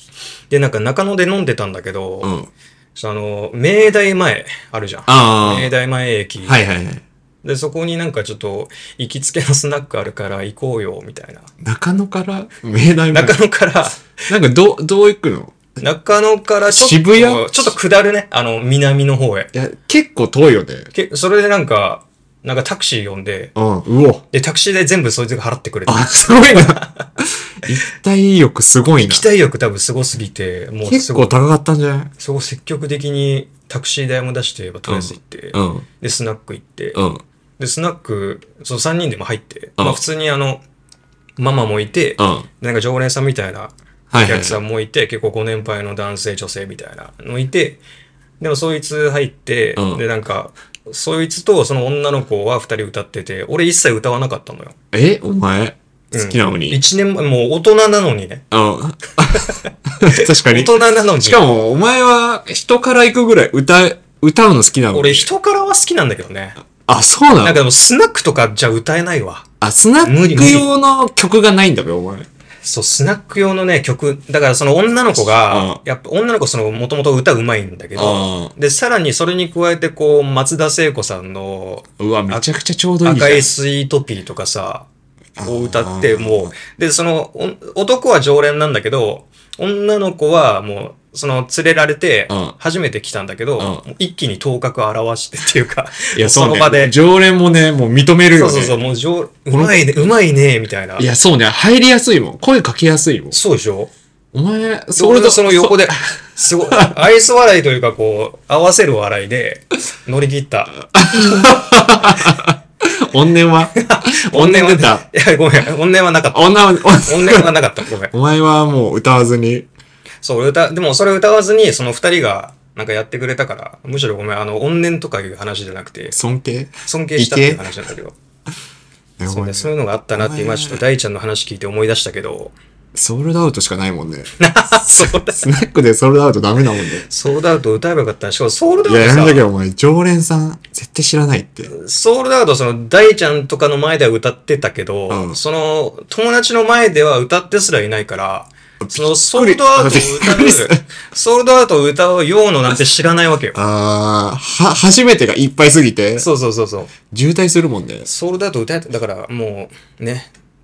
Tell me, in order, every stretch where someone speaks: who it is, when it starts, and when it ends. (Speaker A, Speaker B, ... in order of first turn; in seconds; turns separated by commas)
Speaker A: 0.5-2.3, Speaker B: 2.2-2.5, Speaker A: 2.9-6.6, Speaker B: 5.1-5.7, Speaker B: 6.4-7.0, Speaker A: 7.4-11.4, Speaker B: 11.6-13.4, Speaker A: 13.1-14.0, Speaker B: 14.3-15.8, Speaker A: 15.8-19.5, Speaker B: 16.7-17.7, Speaker B: 19.5-20.9, Speaker A: 20.9-23.5, Speaker B: 23.5-24.2, Speaker A: 24.3-27.1, Speaker B: 25.9-29.3, Speaker A: 29.0-31.3, Speaker B: 30.8-32.1, Speaker A: 32.2-37.0, Speaker B: 34.9-35.9, Speaker B: 36.9-37.2, Speaker A: 37.6-40.6, Speaker A: 41.4-47.8, Speaker B: 42.2-42.5, Speaker B: 44.1-44.6, Speaker A: 48.4-54.7, Speaker B: 49.8-50.0, Speaker B: 54.9-56.8, Speaker A: 56.1-58.4, Speaker B: 58.5-65.3, Speaker A: 60.1-61.4, Speaker A: 64.9-66.6, Speaker B: 66.8-67.6, Speaker A: 67.3-69.4, Speaker B: 69.6-72.3, Speaker A: 70.0-70.7, Speaker A: 72.6-82.5, Speaker B: 75.2-75.8, Speaker B: 78.0-78.5, Speaker B: 82.0-83.5, Speaker A: 83.0-84.9, Speaker B: 85.4-86.5, Speaker A: 85.4-96.9, Speaker B: 92.3-92.5, Speaker B: 93.6-93.8, Speaker B: 96.1-98.8, Speaker A: 98.3-101.0, Speaker B: 99.5-100.1, Speaker B: 101.0-103.4, Speaker A: 103.3-103.9, Speaker B: 104.3-106.9, Speaker A: 105.0-110.8, Speaker B: 110.9-115.0, Speaker A: 113.8-118.1, Speaker B: 116.3-117.5, Speaker B: 118.1-119.7, Speaker A: 120.2-126.2, Speaker B: 126.1-127.7, Speaker A: 126.8-128.1, Speaker B: 129.2-130.8, Speaker A: 129.3-132.5, Speaker B: 132.9-137.1, Speaker A: 134.4-135.4, Speaker A: 137.0-139.5, Speaker B: 138.8-141.7, Speaker A: 141.7-153.6, Speaker B: 145.1-145.4, Speaker B: 148.8-150.8, Speaker B: 153.5-156.3, Speaker A: 156.2-156.9, Speaker B: 157.1-158.1, Speaker A: 158.0-160.3